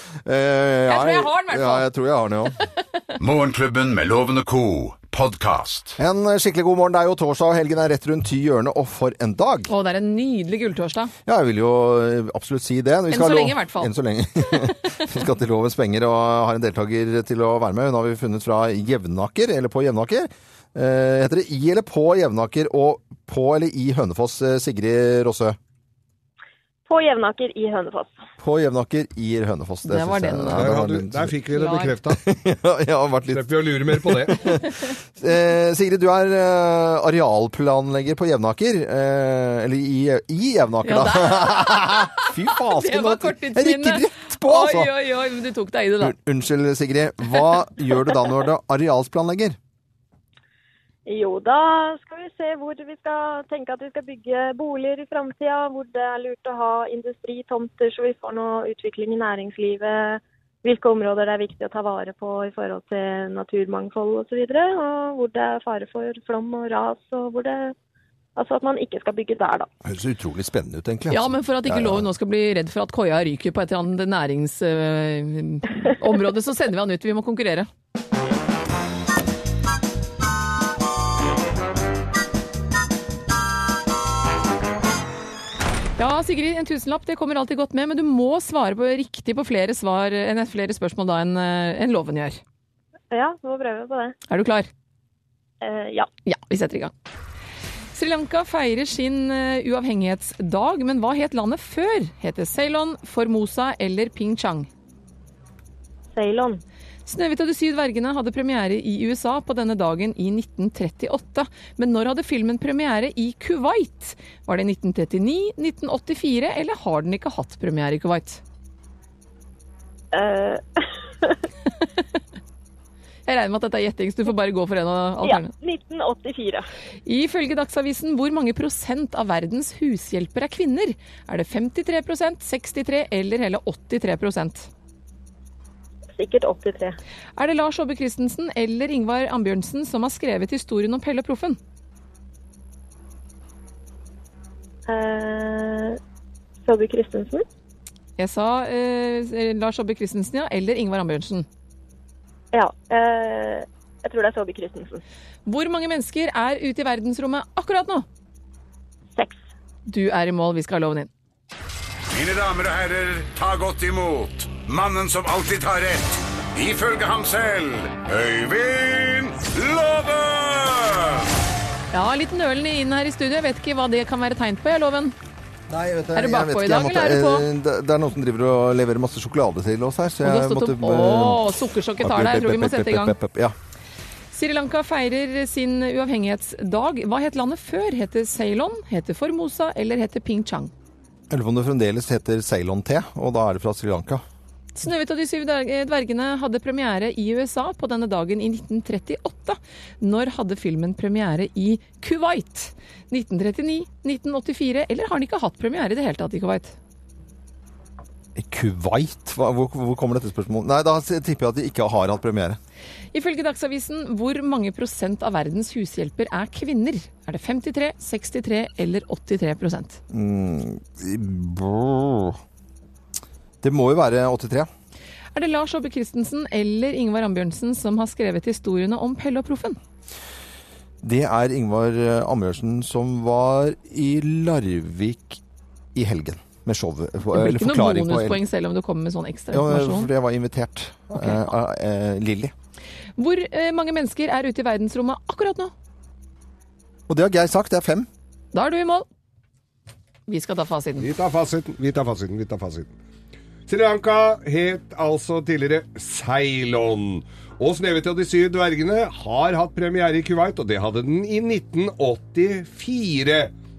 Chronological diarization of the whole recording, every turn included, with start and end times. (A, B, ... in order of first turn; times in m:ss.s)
0:00.2-0:02.6 A
0:00.9-0:01.9 B
0:03.2-0:06.0 C
0:06.0-0:09.7 A
0:09.7-0:11.1 B
0:11.3-0:25.6 A
0:13.1-0:13.9 B
0:26.9-0:28.2 D
0:28.4-0:31.4 A
0:29.8-0:30.7 B
0:30.5-0:32.2 E
0:31.5-0:31.9 B
0:32.1-0:44.9 A
0:33.3-0:34.6 E
0:40.8-0:46.2 B
0:46.0-0:49.6 A
0:51.1-1:07.8 D
1:08.4-1:09.7 D
1:09.8-1:12.1 A
1:11.1-1:17.7 B
1:26.0-1:32.4 B
1:33.1-1:34.2 D
1:34.3-1:34.7 B
1:35.6-1:36.1 D
1:36.3-1:36.9 B
1:37.9-1:44.7 B
1:46.1-1:46.6 D
1:47.1-1:58.4 B
2:00.1-2:01.4 D
2:03.3-2:05.5 B
2:05.2-2:06.7 D
2:07.1-2:14.7 B
2:16.1-2:17.0 D
2:17.4-2:21.6 B
2:24.9-2:26.0 D
2:26.6-2:27.4 D
2:28.2-2:31.5 B
2:32.5-2:35.0 D
2:35.5-2:38.0 B
2:39.9-2:41.1 B
2:42.1-2:51.3 C
2:51.9-2:55.2 B
2:55.7-3:03.6 A
2:56.2-2:57.5 B
3:00.2-3:03.2 B
3:04.3-3:10.7 B
3:11.3-3:14.2 A
3:14.8-3:26.8 B
3:28.4-3:32.6 A
3:33.1-3:40.0 B
3:40.1-3:42.4 A
3:43.6-3:44.7 A
3:45.4-3:49.8 B
3:51.0-3:55.4 A
3:56.0-3:58.4 A
3:57.3-4:00.1 B
3:59.5-4:02.5 A
4:01.2-4:01.5 B
4:03.2-4:05.7 B
4:07.1-4:08.1 A
4:08.5-4:09.0 B
4:10.3-4:11.1 B
4:11.0-4:12.9 E
4:13.7-4:23.5 E